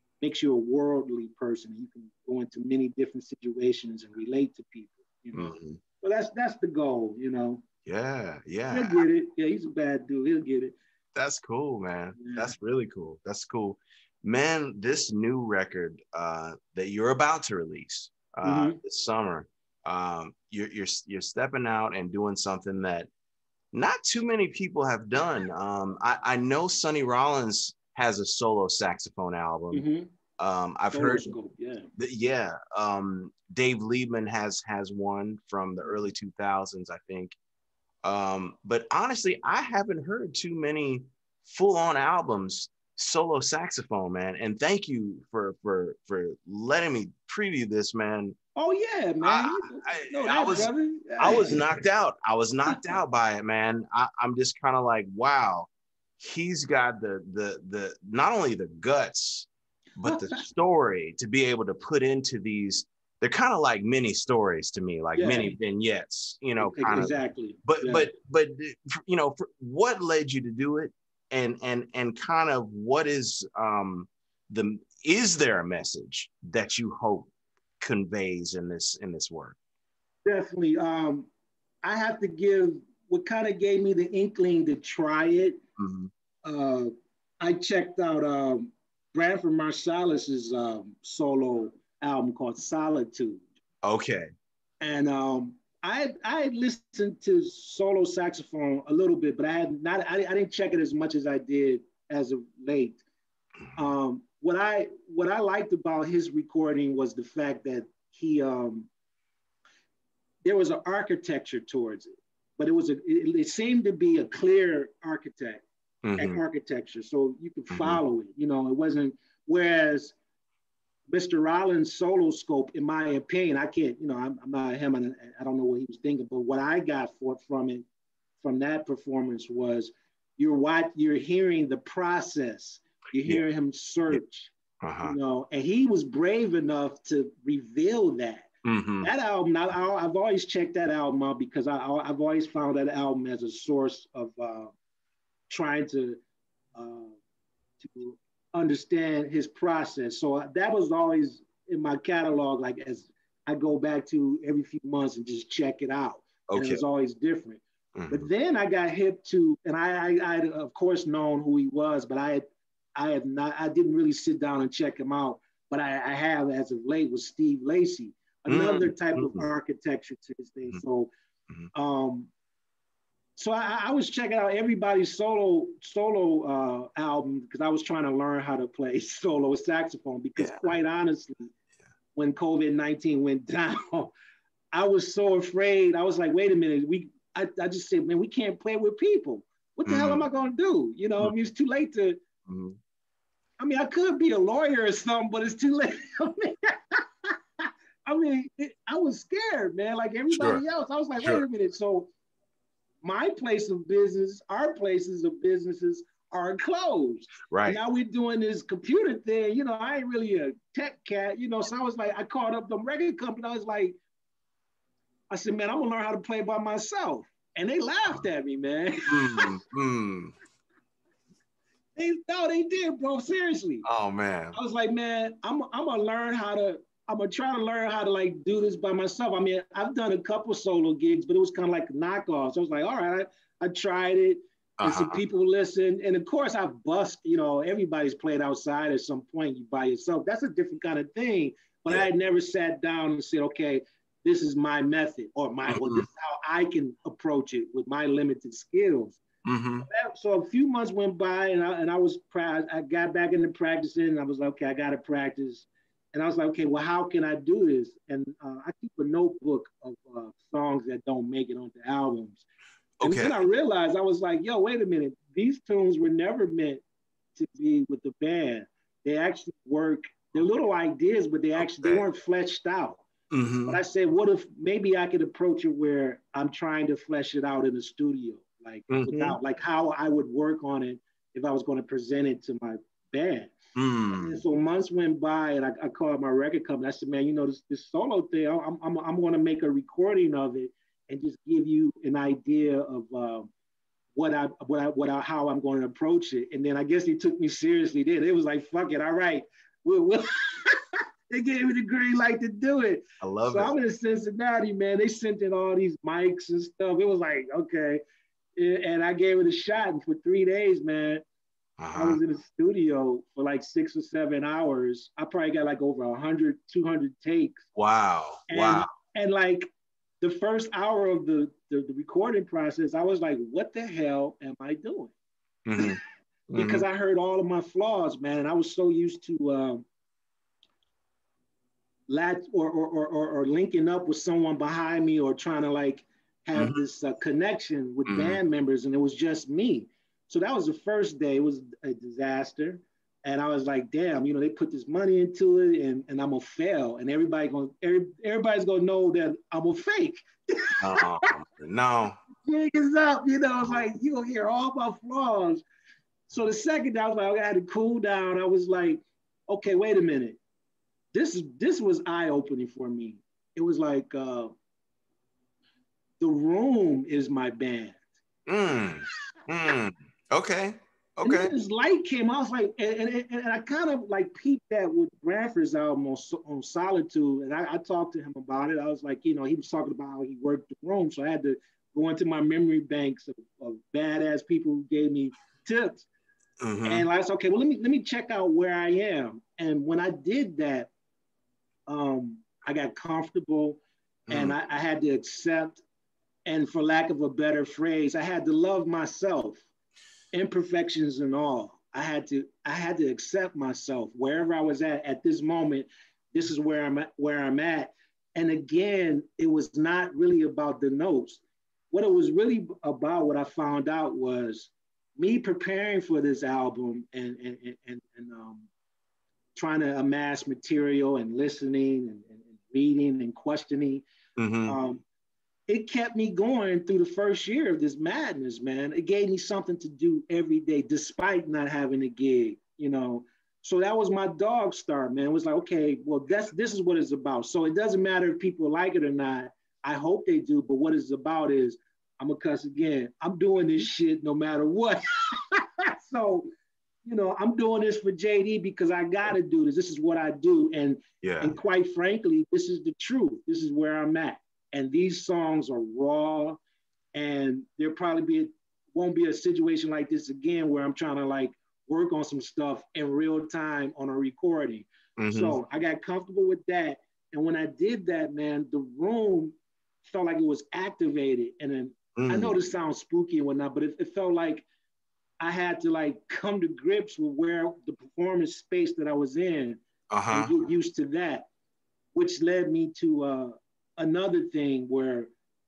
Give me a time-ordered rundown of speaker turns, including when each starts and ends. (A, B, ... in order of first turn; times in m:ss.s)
0:00.2-0:07.6 A
0:05.3-0:05.8 B
0:07.9-0:09.0 B
0:08.7-0:10.8 A
0:11.2-0:23.1 B
0:12.2-0:12.5 A
0:18.4-0:18.8 A
0:23.7-0:29.8 B
0:29.7-0:30.1 A
0:30.4-0:31.3 B
0:30.9-0:31.9 A
0:32.0-0:37.4 B
0:38.0-0:48.4 B
0:48.6-0:51.6 A
0:49.2-1:19.6 B
1:00.0-1:00.4 A
1:05.2-1:05.5 A
1:06.6-1:08.1 A
1:20.2-1:21.3 A
1:21.8-1:25.6 A
1:25.8-1:26.1 B
1:26.4-1:33.4 A
1:33.8-1:34.3 B
1:34.8-1:43.0 A
1:43.8-1:48.9 A
1:50.4-1:55.6 A
1:56.0-1:56.4 B
1:56.2-2:00.2 A
1:57.7-1:58.0 B
2:01.1-2:07.8 A
2:08.4-2:24.7 A
2:14.8-2:15.2 B
2:18.6-2:19.1 B
2:25.5-2:26.2 A
2:26.8-2:27.2 A
2:27.8-2:42.4 A
2:36.5-2:36.8 B
2:38.0-2:38.3 B
2:43.0-2:51.1 A
2:48.5-2:49.5 B
2:51.7-2:52.3 A
2:53.4-3:01.5 A
3:00.4-3:00.7 B
3:02.2-3:04.1 A
3:04.7-3:12.2 A
3:09.9-3:10.2 B
3:12.5-3:12.8 B
3:13.6-3:22.1 A
3:20.3-3:20.6 B
3:23.0-3:34.0 A
3:27.5-3:27.8 B
3:35.3-3:39.5 A
3:39.1-3:40.3 B
3:42.0-3:43.9 A
3:43.8-3:44.6 B
3:44.5-4:09.2 A
3:54.8-3:55.2 B
4:05.7-4:06.1 B
4:09.4-4:09.9 B
4:09.8-4:22.4 A
4:23.0-4:23.4 B
4:23.0-4:26.8 A
4:27.4-4:33.1 A
4:31.6-4:32.0 B
4:33.3-4:33.8 B
4:33.7-4:43.6 A
4:38.9-4:39.4 B
4:43.8-4:44.4 B
4:44.1-4:53.5 A
4:54.2-5:08.0 A
5:03.2-5:03.7 B
5:08.6-5:11.2 A
5:11.8-5:12.2 B
5:11.9-5:17.6 A
5:17.8-5:18.9 B
5:18.5-5:19.7 A
5:20.2-5:25.1 A
5:25.6-5:26.0 B
5:26.5-5:26.8 B
5:26.6-5:29.8 A
5:32.1-5:51.2 A
5:36.6-5:36.8 B
5:38.1-5:38.4 B
5:50.8-5:52.2 B
5:52.4-5:55.6 A
5:56.3-6:00.4 A
6:01.1-6:04.5 A
6:06.2-6:08.0 A
6:08.5-6:11.5 B
6:11.2-6:26.1 A
6:26.6-6:27.1 B
6:26.8-6:30.9 A
6:31.9-6:35.8 A
6:34.3-6:34.6 B
6:36.5-6:39.6 A
6:40.3-6:58.7 A
6:59.6-7:04.1 A
7:04.4-7:04.8 B
7:04.6-7:05.0 A
7:05.7-7:26.5 A
7:27.0-7:36.6 A
7:31.2-7:31.6 B
7:37.1-7:54.7 A
7:45.2-7:45.6 B
7:52.2-7:52.6 B
7:55.4-8:01.5 A
8:00.1-8:00.5 B
8:02.2-8:05.3 A